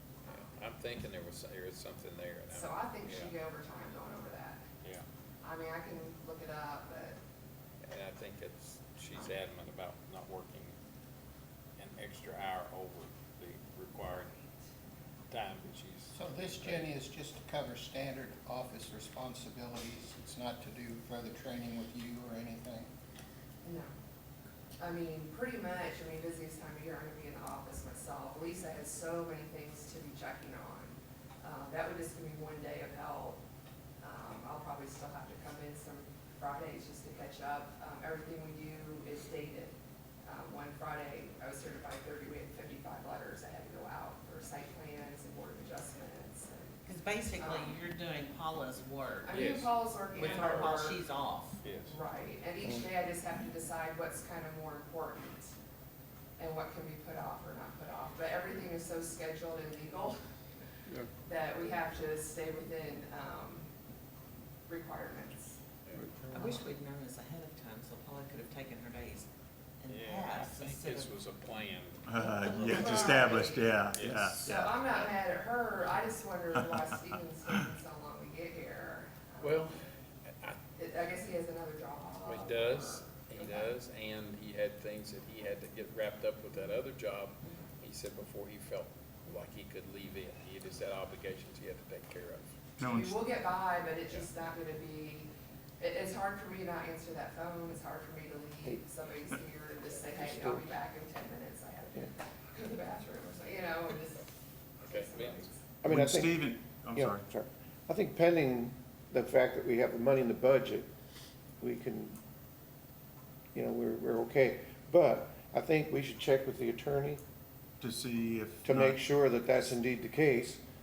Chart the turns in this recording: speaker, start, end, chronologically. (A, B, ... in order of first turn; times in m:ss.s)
0:00.2-0:03.3 A
0:02.5-0:04.6 B
0:05.4-0:07.2 B
0:07.8-0:10.8 A
0:11.8-0:14.3 A
0:15.3-0:16.9 A
0:16.1-0:22.9 C
0:23.6-0:23.9 B
0:24.8-0:33.4 B
0:34.0-0:39.7 B
0:40.2-0:46.8 B
0:46.8-0:49.4 D
0:47.3-0:47.8 B
0:49.2-0:51.0 B
0:49.3-0:51.0 A
0:50.2-0:51.6 D
0:51.6-0:52.0 A
0:51.9-0:55.5 B
0:56.4-1:00.2 B
1:01.2-1:03.7 B
1:04.7-1:05.6 B
1:06.3-1:09.3 D
1:09.8-1:11.1 D
1:09.9-1:12.0 A
1:12.1-1:14.7 E
1:12.2-1:13.5 D
1:12.6-1:13.6 B
1:13.9-1:14.8 A
1:14.4-1:19.7 B
1:19.4-1:19.8 A
1:20.8-1:23.7 B
1:22.3-1:32.5 A
1:32.8-1:33.2 E
1:32.9-1:44.2 B
1:40.2-1:40.6 F
1:44.8-1:45.6 B
1:44.8-1:45.4 A
1:45.8-1:50.9 F
1:45.8-1:47.2 E
1:51.6-1:52.2 F
1:53.5-1:57.2 F
1:57.8-1:59.0 E
1:58.6-2:00.6 F